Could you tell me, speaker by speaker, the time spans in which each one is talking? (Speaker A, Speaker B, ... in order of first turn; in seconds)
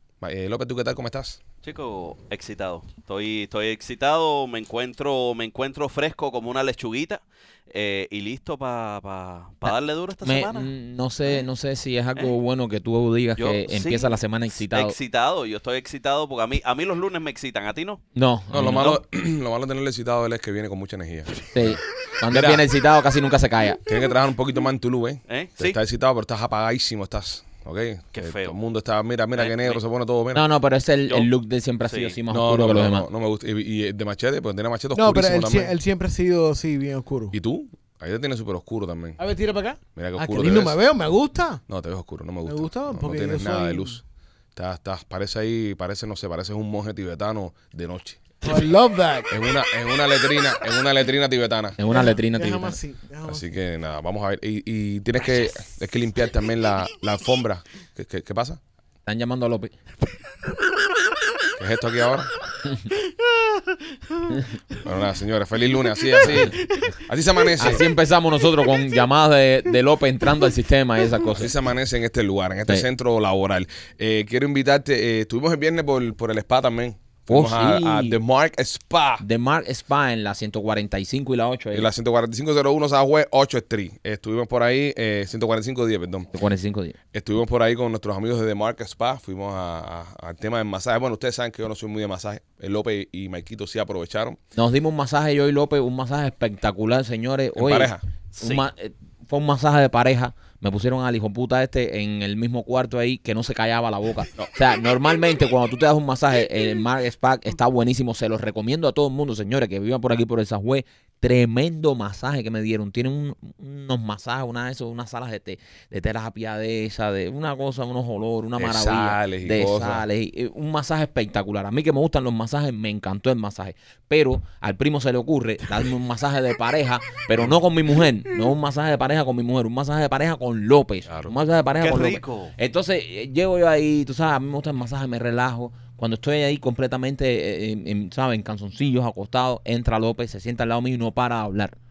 Speaker A: 0.2-1.4, 18.5-22.6, 23.9-30.4, 32.3-35.7, 37.3-39.2, 40.0-40.8, 41.7-44.0, 44.5-48.6, 49.3-51.8, 53.3-58.6, 61.6-62.3, 64.7-67.8, 71.4-79.2, 81.7-86.3, 87.1-94.4, 97.6-98.0, 118.6-120.0, 131.1-131.3
Speaker B: 1.6-10.7, 13.4-18.0, 18.7-19.0, 25.3-25.8, 28.1-28.6, 29.3-29.8, 31.9-32.2, 98.4-98.6, 131.8-132.5
Speaker C: 9.7-14.9, 18.1-19.0, 21.5-23.8, 30.3-33.1, 51.8-52.8, 59.0-59.8, 67.6-71.5, 77.3-78.2, 79.2-81.9, 86.3-87.0, 94.6-141.8
Speaker D: 35.0-37.4, 39.2-41.6, 42.5-44.0, 48.4-49.3, 51.9-53.5